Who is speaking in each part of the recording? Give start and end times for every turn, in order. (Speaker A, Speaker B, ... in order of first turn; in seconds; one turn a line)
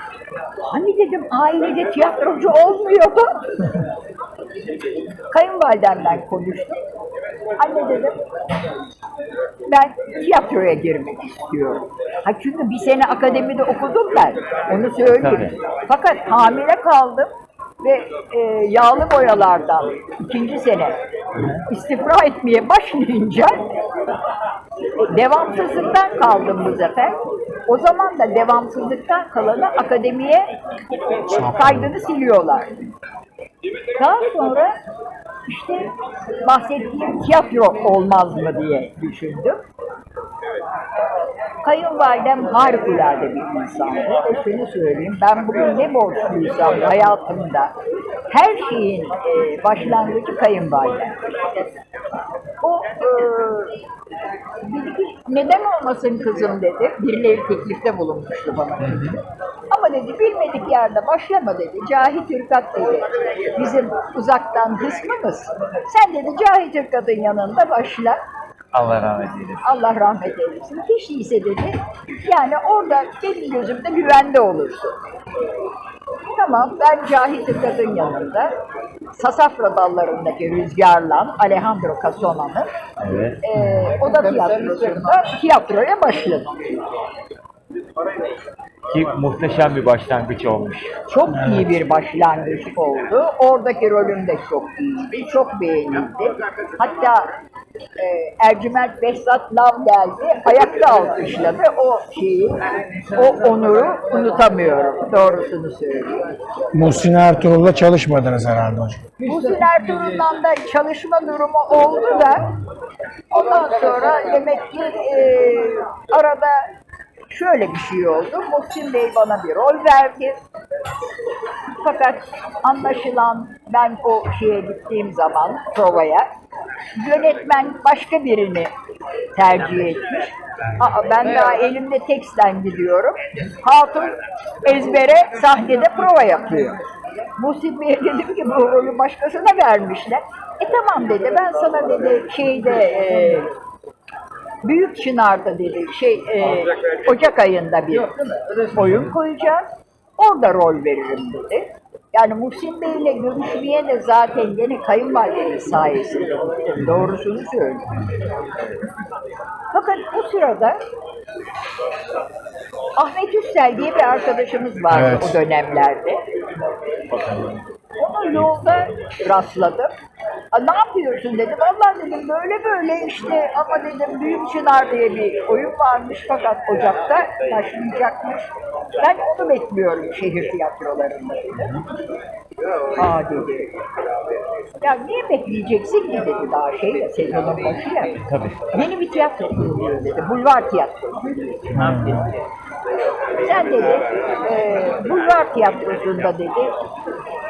Speaker A: 0.6-3.4
Speaker A: 5.3-6.8
Speaker A: 7.6-8.2
Speaker A: 9.7-17.3
Speaker B: 15.1-15.5
Speaker A: 17.8-21.0
Speaker A: 21.7-23.6
Speaker A: 25.0-30.5
Speaker A: 31.2-32.7
Speaker C: 31.3-31.9
Speaker A: 34.0-34.7
Speaker A: 35.5-35.9
Speaker A: 36.4-39.6
Speaker A: 41.6-47.7
Speaker A: 48.3-51.7
Speaker A: 52.6-53.8
Speaker A: 54.6-68.2
Speaker B: 58.8-59.1
Speaker B: 68.7-69.7
Speaker A: 69.6-75.0
Speaker A: 76.3-78.5
Speaker A: 79.1-82.7
Speaker B: 83.0-83.4
Speaker A: 83.4-86.8
Speaker B: 88.9-90.9
Speaker A: 91.1-97.3
Speaker A: 98.0-106.3
Speaker C: 106.7-109.1
Speaker A: 109.2-112.5
Speaker A: 113.3-116.7
Speaker A: 117.3-120.4
Speaker A: 121.8-126.2
Speaker A: 127.0-128.7
Speaker A: 129.4-136.8
Speaker A: 137.4-143.5
Speaker A: 144.6-157.9
Speaker A: 159.7-160.8
Speaker A: 162.9-166.2
Speaker C: 164.9-165.4
Speaker B: 167.1-167.6
Speaker A: 168.0-169.9
Speaker A: 170.5-181.7
Speaker A: 183.0-183.8
Speaker A: 184.8-188.2
Speaker B: 188.2-188.6
Speaker A: 188.7-191.8
Speaker C: 191.7-192.3
Speaker A: 193.4-196.7